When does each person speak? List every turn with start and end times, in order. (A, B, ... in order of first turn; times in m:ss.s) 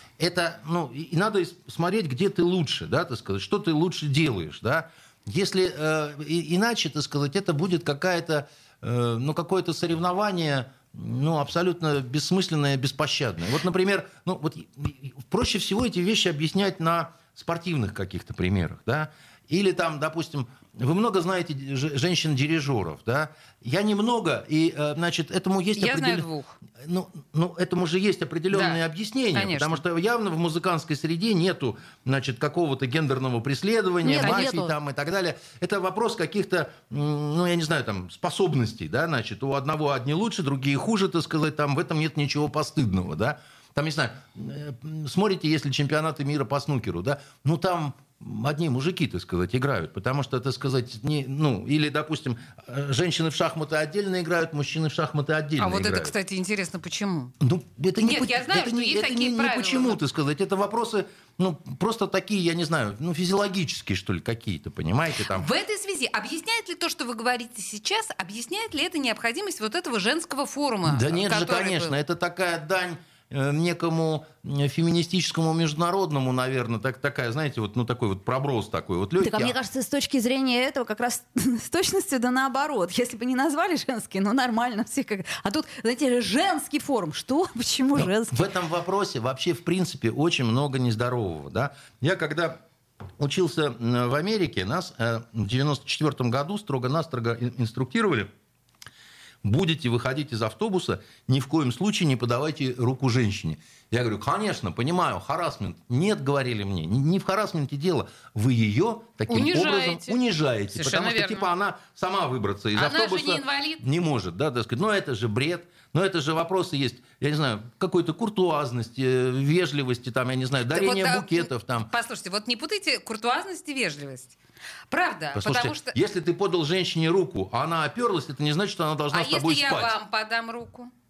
0:00.2-0:56.1 A
0:25.8-0:26.5 B
0:28.5-0:28.8 B
0:29.3-0:29.8 B
0:34.0-0:34.7 C
0:34.2-0:34.6 B
0:55.6-0:57.3 B
0:57.4-1:05.5 A
0:58.0-1:00.0 B
1:05.3-1:11.9 B
1:10.8-1:19.5 A
1:19.2-1:28.4 C
1:27.9-1:32.6 A
1:33.2-1:38.3 A
1:39.4-2:01.9 A
1:49.3-1:50.2 B
1:50.7-1:51.5 B
1:52.7-1:53.8 B
2:00.7-2:04.4 B
2:04.9-2:05.9 B
2:05.3-2:09.9 A
2:09.1-2:10.9 B